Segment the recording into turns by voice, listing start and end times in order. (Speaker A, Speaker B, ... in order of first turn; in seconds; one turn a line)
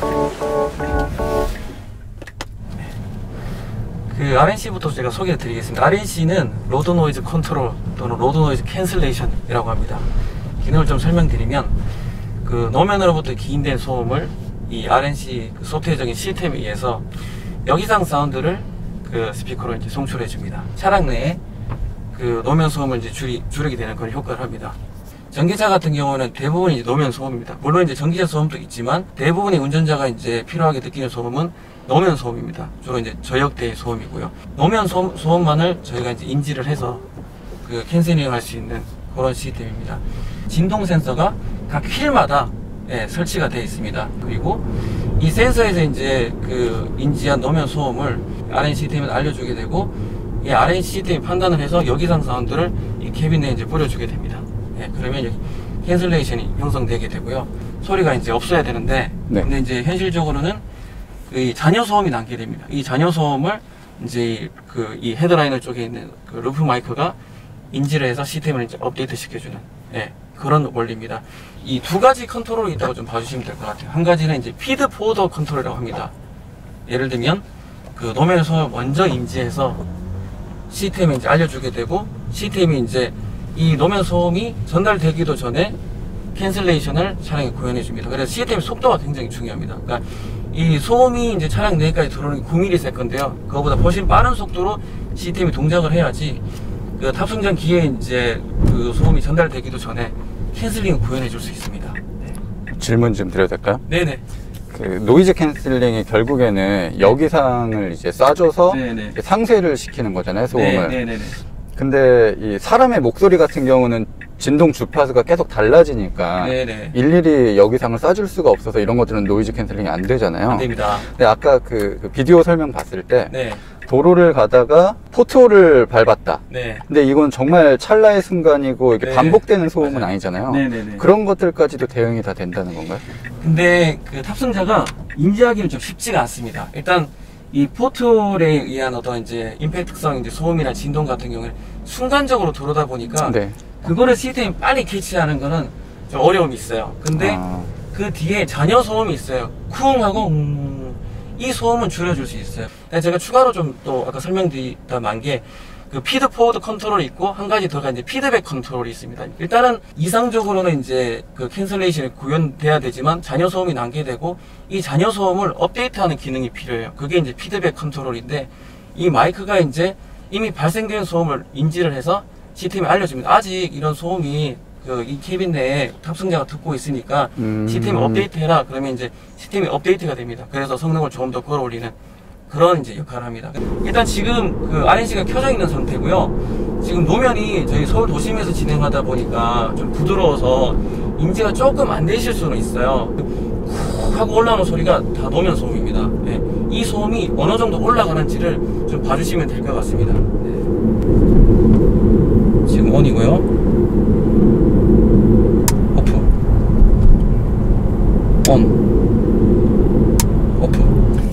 Speaker A: 4.1-10.1
Speaker A: 10.6-11.8
Speaker A: 12.4-17.1
Speaker A: 17.6-21.4
Speaker A: 22.1-24.8
Speaker A: 25.3-37.0
Speaker A: 37.6-60.6
Speaker A: 61.3-67.2
Speaker A: 67.7-76.1
Speaker A: 76.9-79.8
Speaker A: 80.7-85.8
Speaker A: 86.3-96.4
Speaker A: 97.0-102.0
Speaker B: 102.7-103.8
Speaker A: 103.8-104.2
Speaker B: 104.7-111.0
Speaker A: 108.7-109.2
Speaker A: 110.5-111.4
Speaker B: 111.8-133.0
Speaker A: 116.4-117.0
Speaker A: 120.5-121.1
Speaker A: 123.3-123.6
Speaker A: 126.5-126.8
Speaker A: 129.0-131.1
Speaker A: 133.4-181.9
Speaker B: 143.2-143.5
Speaker B: 147.1-147.7
Speaker B: 177.4-178.3
Speaker A: 182.5-200.7
Speaker A: 202.7-203.5
Speaker A: 205.9-206.3
Speaker A: 208.4-208.8
Speaker A: 210.6-210.9